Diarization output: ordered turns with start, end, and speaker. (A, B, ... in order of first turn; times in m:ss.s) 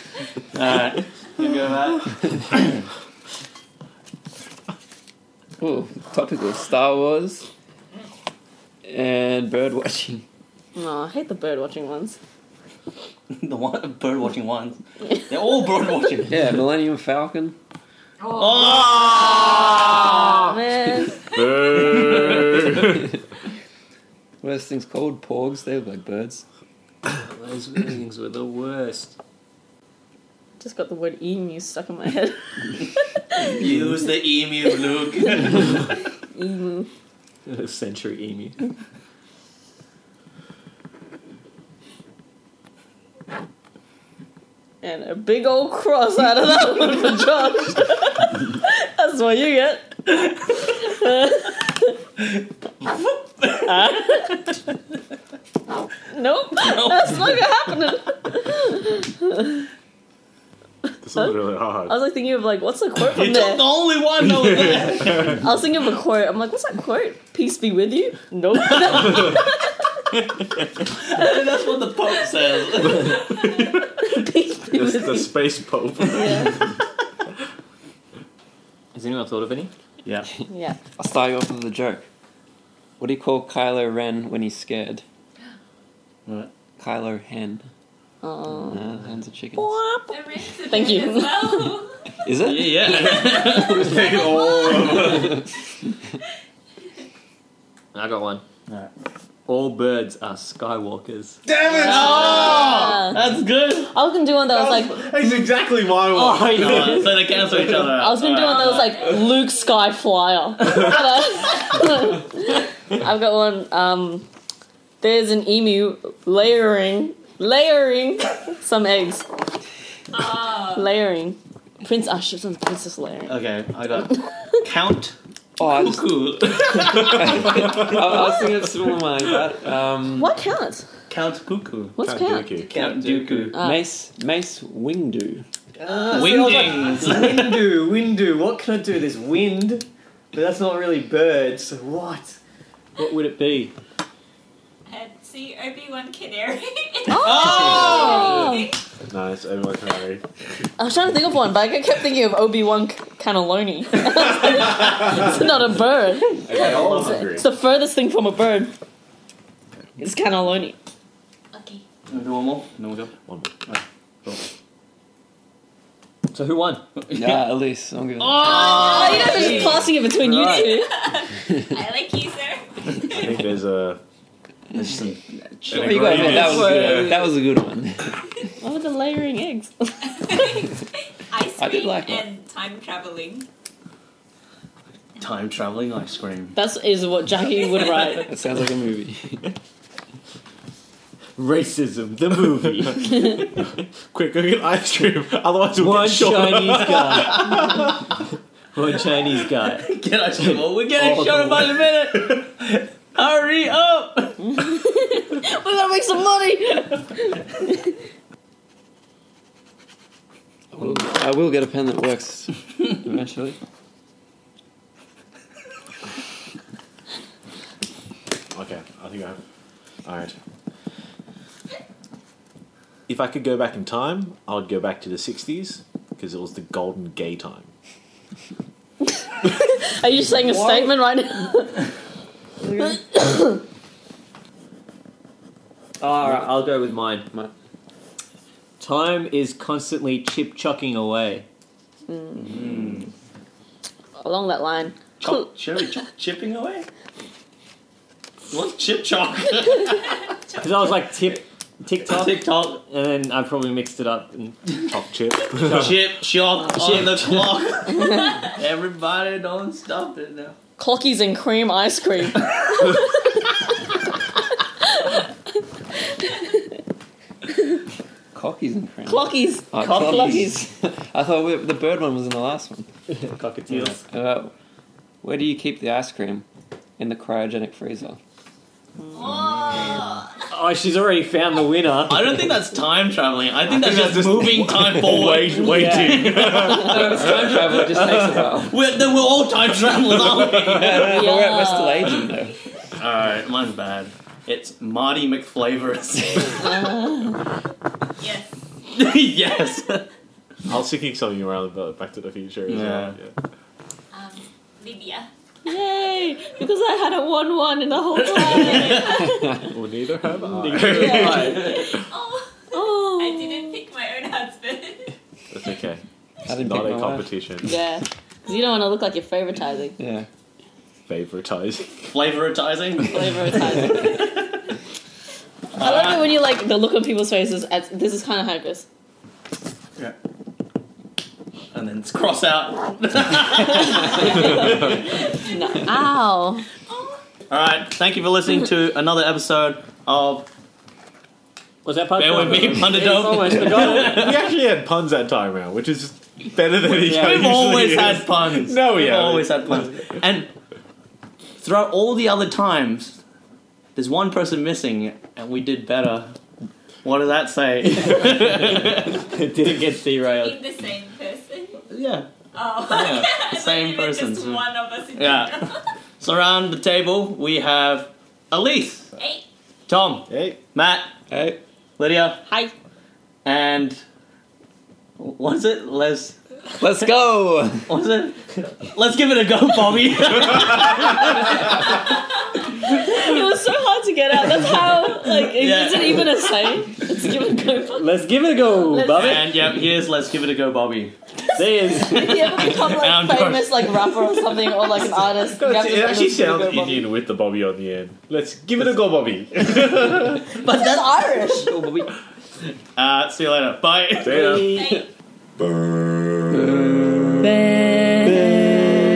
0:00.5-0:02.8 A
0:05.6-0:07.5 B
0:08.9-0:10.2 B
0:10.8-0:12.2 C
0:13.3-0:16.5 A
0:16.3-0:17.6 B
0:18.2-0:19.5 D
0:18.3-0:20.3 A
0:19.9-0:21.3 C
0:21.3-0:23.1 E
0:22.0-0:22.4 A
0:24.4-0:26.4 B
0:27.1-0:29.2 F
0:30.6-0:33.6 C
0:33.4-0:35.9 A
0:36.3-0:36.9 C
0:37.5-0:38.6 F
0:44.8-0:51.8 C
0:52.8-0:54.6 A
0:53.6-0:54.5 C
0:56.1-0:59.7 C
0:56.6-0:57.2 A
1:01.0-1:02.0 E
1:01.9-1:03.6 C
1:03.0-1:05.4 A
1:04.4-1:05.4 E
1:05.3-1:09.6 C
1:08.7-1:09.2 A
1:10.8-1:13.2 A
1:13.0-1:14.1 E
1:13.6-1:15.3 C
1:14.7-1:16.7 E
1:16.1-1:16.7 C
1:18.9-1:19.7 F
1:20.5-1:20.8 C
1:21.0-1:22.1 B
1:23.0-1:25.0 B
1:26.3-1:26.5 A
1:26.8-1:27.7 B
1:28.2-1:28.8 C
1:28.6-1:29.8 B
1:29.6-1:31.8 C
1:30.1-1:32.0 D
1:32.2-1:34.1 B
1:32.4-1:34.1 A
1:33.6-1:35.4 E
1:34.5-1:35.2 D
1:37.9-1:38.4 F
1:39.5-1:41.4 F
1:41.5-1:42.7 E
1:41.7-1:43.9 A
1:41.8-1:43.2 C
1:43.8-1:45.1 C
1:44.5-1:47.5 E
1:46.1-1:47.1 F
1:46.5-1:48.9 A
1:47.8-1:54.3 C
1:48.2-1:49.5 D
1:55.0-1:59.3 C
2:00.1-2:00.9 D
2:00.7-2:03.4 C
2:03.3-2:07.2 A
2:05.6-2:10.4 B
2:06.8-2:07.9 E
2:10.2-2:10.9 C
2:11.1-2:12.0 A
2:12.0-2:12.6 C
2:12.0-2:12.7 E
2:12.7-2:13.6 F
2:12.7-2:13.6 A
2:13.5-2:15.5 B
2:13.6-2:13.9 C
2:15.8-2:22.4 F
2:16.1-2:17.6 A
2:23.0-2:23.8 F
2:24.9-2:28.8 D
2:27.1-2:28.8 C
2:27.2-2:28.3 A
2:29.1-2:30.2 E
2:30.8-2:38.7 C
2:36.5-2:37.5 E
2:36.5-2:37.2 A
2:40.0-2:40.8 C
2:41.5-2:41.8 D
2:42.1-2:43.1 A
2:43.7-2:44.4 A
2:46.3-2:46.8 F
2:47.1-2:47.4 A
2:47.1-2:49.0 B
2:48.2-2:49.7 A
2:48.4-2:53.5 D
2:48.5-2:50.9 C
2:50.2-2:50.5 F
2:53.0-2:54.0 E
2:54.7-2:57.0 A
2:55.7-2:58.2 B
2:55.7-2:57.2 E
2:56.3-2:56.6 F
2:56.8-2:57.2 C
2:58.6-3:00.4 C
3:00.1-3:03.5 D
3:01.6-3:02.3 B
3:05.2-3:06.6 A
3:06.6-3:08.3 C
3:08.1-3:09.5 B
3:11.4-3:13.2 F
3:13.0-3:13.3 E
3:14.1-3:17.9 E
3:15.8-3:17.8 F
3:18.7-3:19.9 F
3:19.8-3:24.6 A
3:20.4-3:21.8 F
3:24.6-3:27.5 C
3:30.7-3:33.6 B
3:38.5-3:39.4 E
3:40.0-3:40.4 E
3:43.1-3:47.7 E
3:49.4-3:51.9 C
3:50.5-3:50.9 B
3:52.7-3:53.6 C
3:56.0-3:57.3 F
3:58.8-4:01.5 F
4:02.1-4:02.8 C
4:02.4-4:03.1 A
4:04.2-4:05.5 C
4:05.2-4:06.9 A
4:08.5-4:10.1 A
4:09.8-4:10.8 D
4:10.6-4:14.6 F
4:12.0-4:12.8 A
4:14.8-4:16.0 E
4:15.6-4:16.1 F
4:15.6-4:20.6 A
4:16.6-4:17.5 F
4:17.9-4:18.3 C
4:18.2-4:18.5 D
4:20.8-4:23.0 C
4:28.3-4:32.9 B
4:29.1-4:30.6 C
4:33.1-4:34.0 F
4:33.9-4:34.5 B
4:35.2-4:36.5 B
4:37.0-4:38.2 B
4:39.0-4:39.4 C
4:39.2-4:40.3 D
4:40.5-4:42.4 F
4:42.1-4:51.2 A
4:43.7-4:47.1 E
4:45.6-4:46.3 F
4:46.6-4:48.8 B
4:50.5-4:52.6 B
4:50.9-4:52.2 C
4:53.0-4:56.9 A
4:56.6-4:57.4 C
4:58.2-4:58.6 D
4:58.9-5:00.1 A
5:00.7-5:03.4 E
5:02.7-5:03.2 A
5:04.1-5:05.3 D
5:05.6-5:09.7 C
5:08.4-5:09.4 D
5:08.4-5:08.8 A
5:09.7-5:11.9 E
5:10.6-5:11.0 F
5:10.7-5:11.9 A
5:10.9-5:11.9 C
5:11.7-5:15.1 D
5:12.7-5:13.8 C
5:15.5-5:17.7 E
5:16.5-5:17.3 B
5:17.6-5:20.0 C
5:20.0-5:20.3 B
5:21.1-5:22.0 E
5:22.0-5:24.5 A
5:23.0-5:24.4 C
5:25.8-5:26.3 A
5:25.8-5:28.9 C
5:31.7-5:35.0 A
5:34.2-5:36.6 C
5:35.0-5:35.8 D
5:36.9-5:37.2 D
5:37.5-5:40.5 A
5:41.8-5:44.4 F
5:42.2-5:44.5 A
5:43.9-5:49.9 E
5:46.8-5:50.5 A
5:51.6-5:53.2 A
5:54.0-5:56.3 A
5:57.0-5:59.3 A
5:59.2-6:00.6 F
6:00.4-6:01.8 D
6:01.9-6:02.3 A
6:02.5-6:05.9 D
6:02.8-6:04.6 A
6:05.2-6:09.1 A
6:09.2-6:09.5 D
6:09.9-6:11.1 A
6:10.3-6:10.6 E
6:11.3-6:11.6 B
6:12.0-6:12.4 A
6:12.5-6:12.7 C
6:13.4-6:14.0 A
6:15.2-6:16.4 A
6:16.8-6:17.9 B
6:17.9-6:22.1 A
6:23.0-6:28.2 C
6:25.5-6:26.4 A
6:28.0-6:29.6 F
6:28.7-6:29.3 C
6:29.1-6:31.2 A
6:31.5-6:32.4 F
6:32.0-6:34.6 A
6:32.0-6:37.1 C
6:35.5-6:40.5 E
6:40.5-6:41.7 C
6:40.6-6:40.9 A
6:41.6-6:42.1 B
6:43.0-6:44.6 A
6:44.2-6:44.8 E
6:44.3-6:45.0 B
6:44.6-6:45.1 D
6:47.4-6:48.5 C